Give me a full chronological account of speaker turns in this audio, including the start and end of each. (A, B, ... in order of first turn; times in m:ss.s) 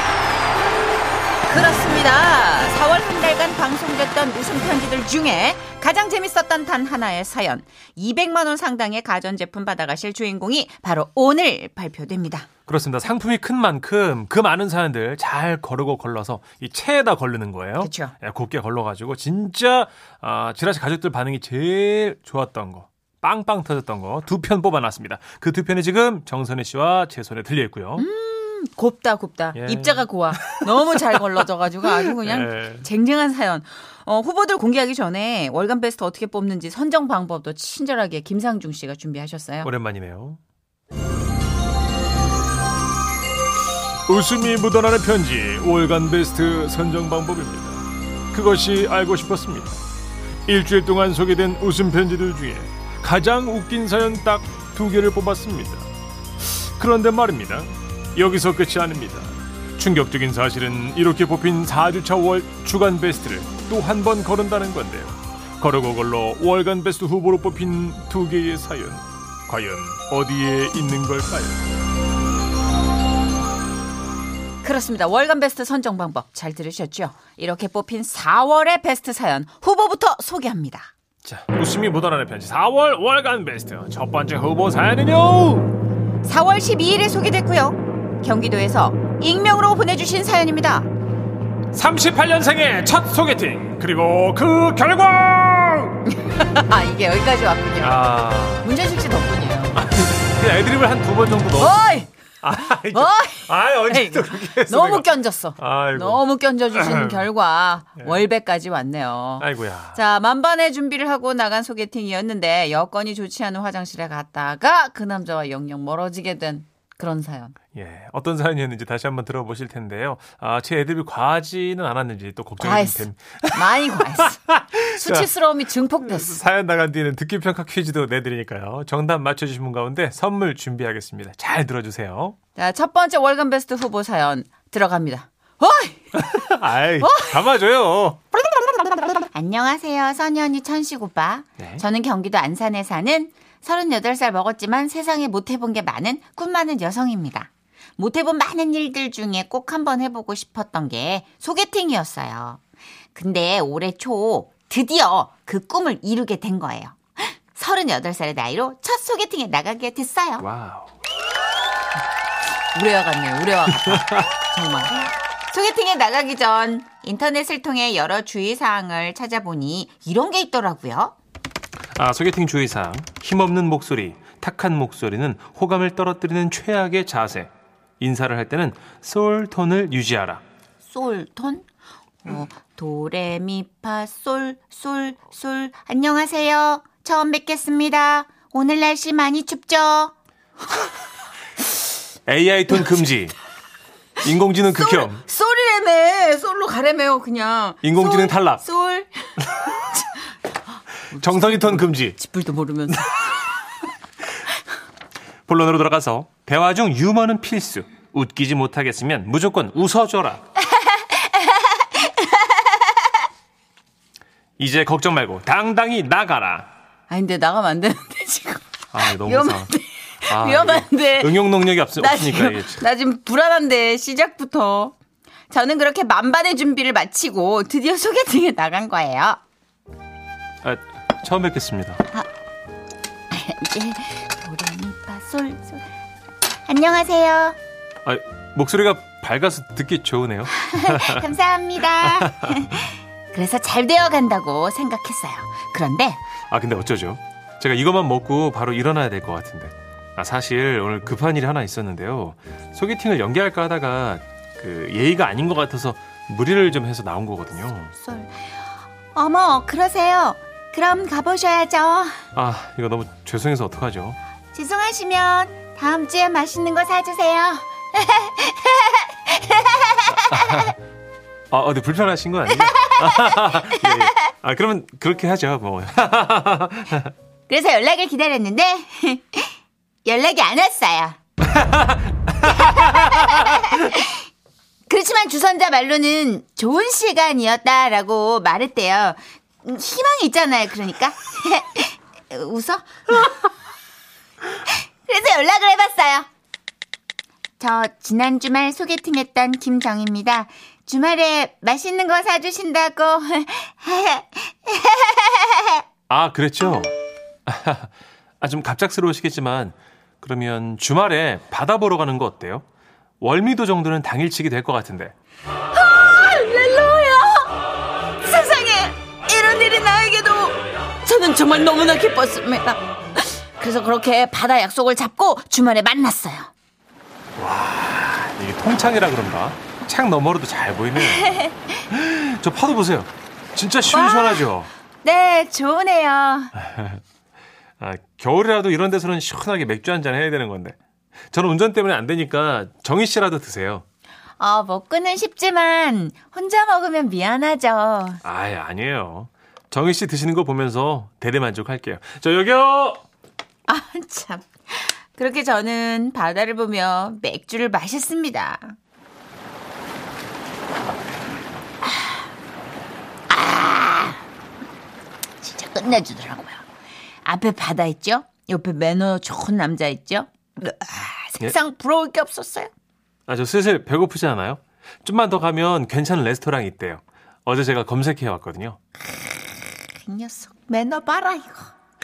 0:01.5-0:12.5 A
0:12.7-0:28.0 B
0:17.8-0:18.1 A
0:28.0-0:39.7 A
0:29.6-0:32.9 B
0:39.6-0:40.4 B
0:44.1-0:49.8 B
0:50.4-1:11.8 B
1:14.6-1:20.9 A
1:21.2-1:25.7 B
1:26.2-1:30.9 A
1:31.7-1:36.0 B
1:36.1-1:38.0 A
1:37.8-1:38.7 B
1:38.6-1:39.8 A
1:39.8-1:41.8 B
1:41.6-1:42.1 A
1:42.4-1:47.3 B
1:42.9-1:57.6 A
1:48.0-1:48.2 B
1:49.4-1:50.0 B
1:57.7-2:05.3 B
2:02.6-2:04.4 A
2:04.9-2:06.4 A
2:06.0-2:12.4 B
2:12.6-2:16.3 A
2:16.1-2:18.3 B
2:17.0-2:17.4 A
2:19.2-2:32.6 A
2:33.1-2:40.5 A
2:40.4-2:40.9 B
2:42.7-2:51.2 A
2:43.7-2:44.3 B
2:51.9-3:00.4 B
3:00.8-3:01.6 A
3:02.2-3:10.2 A
3:12.3-3:13.3 B
3:14.2-3:15.2 B
3:14.8-3:20.3 A
3:17.8-3:18.6 B
3:21.1-3:23.5 A
3:21.1-3:22.2 B
3:25.5-3:30.4 B
3:30.6-3:33.1 A
3:34.6-3:36.7 B
3:37.1-3:41.4 A
3:38.9-3:39.7 B
3:40.3-3:42.8 B
3:42.0-3:45.0 A
3:45.5-3:49.4 A
3:50.6-3:52.0 B
3:53.3-3:55.8 A
3:56.7-3:57.6 A
3:58.0-4:01.3 B
4:00.5-4:06.2 A
4:02.0-4:02.9 B
4:06.5-4:17.9 B
4:18.0-4:22.2 A
4:22.3-4:24.2 B
4:24.5-4:30.7 A
4:30.1-4:30.8 B
4:31.5-4:37.1 B
4:32.6-4:34.3 A
4:37.5-4:41.2 A
4:41.4-4:44.0 B
4:42.4-4:44.3 A
4:44.9-4:53.5 A
4:54.6-4:56.3 A
4:57.6-5:05.8 A
5:06.1-5:06.9 B
5:07.4-5:12.6 B
5:13.2-5:15.1 B
5:15.7-5:17.6 A
5:18.2-5:26.5 A
5:27.4-5:31.3 B
5:31.0-5:31.8 A
5:31.9-5:34.7 B
5:33.9-5:34.5 A
5:35.0-5:36.5 A
5:36.5-5:37.0 B
5:37.8-5:40.8 B
5:41.3-5:43.8 B
5:44.4-5:48.2 A
5:48.2-5:53.0 B
5:53.7-5:58.8 A
6:01.8-6:02.1 A
6:03.3-6:04.2 A
6:05.4-6:06.6 A
6:07.2-6:12.7 A
6:13.3-6:18.8 B
6:19.9-6:21.7 A